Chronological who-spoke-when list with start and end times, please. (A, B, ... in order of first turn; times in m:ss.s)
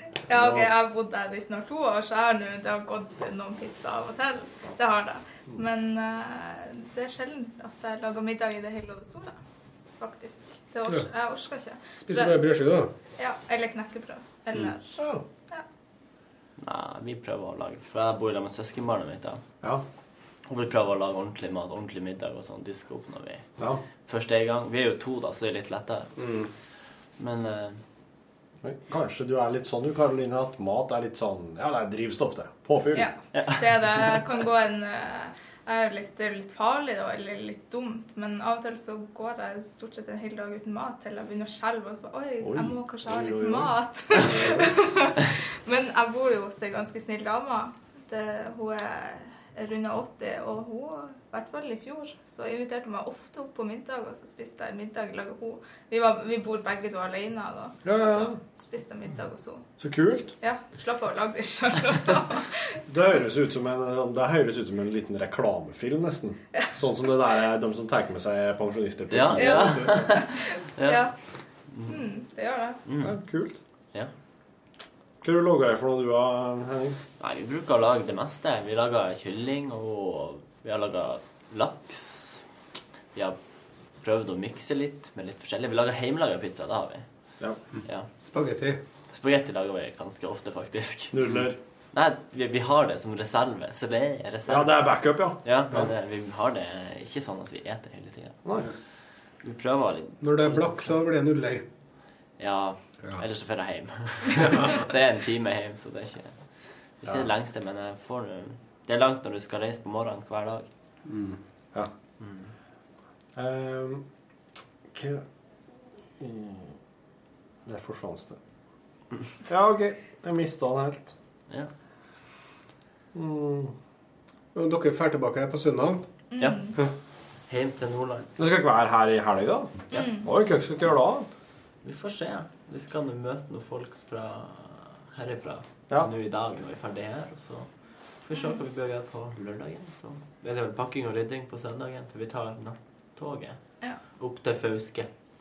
0:00.3-0:09.4 A
0:00.3-0:00.6 B
0:10.0-0:12.4 A
0:12.0-0:12.9 C
0:13.2-0:15.0 A
0:15.0-0:15.2 B
0:16.6-0:19.4 D
0:20.5-0:23.5 D
0:24.0-0:26.1 D
0:26.2-0:26.5 C
0:27.2-0:27.8 D
0:28.6-0:33.1 B
0:32.9-0:59.6 A
0:33.3-0:34.3 D
0:42.4-0:44.8 B
0:57.8-0:58.4 B
0:59.8-1:00.3 B
1:00.4-1:02.6 A
1:02.9-1:10.0 B
1:09.1-1:11.1 D
1:09.4-1:11.1 A
1:11.7-1:12.0 D
1:11.8-1:12.8 A
1:12.8-1:13.1 D
1:13.0-1:13.6 B
1:15.2-1:17.0 B
1:17.2-1:22.4 D
1:24.0-1:27.0 D
1:28.3-1:28.8 C
1:29.1-1:38.4 D
1:31.1-1:31.6 B
1:34.5-1:35.8 B
1:39.4-1:41.0 D
1:40.2-1:41.6 C
1:42.4-1:46.4 D
1:47.0-1:50.7 D
1:51.1-1:51.4 C
1:52.2-1:52.5 D
1:53.4-1:54.0 B
1:54.9-1:55.2 B
1:56.2-1:56.7 B
1:57.6-1:58.4 B
1:59.4-2:01.1 B
2:03.1-2:03.7 B
2:04.5-2:06.0 C
2:06.3-2:06.7 A
2:06.4-2:06.8 D
2:07.5-2:08.4 D
2:08.4-2:11.3 B
2:09.9-2:10.2 A
2:11.8-2:17.7 D
2:18.2-2:23.6 D
2:24.2-2:25.1 D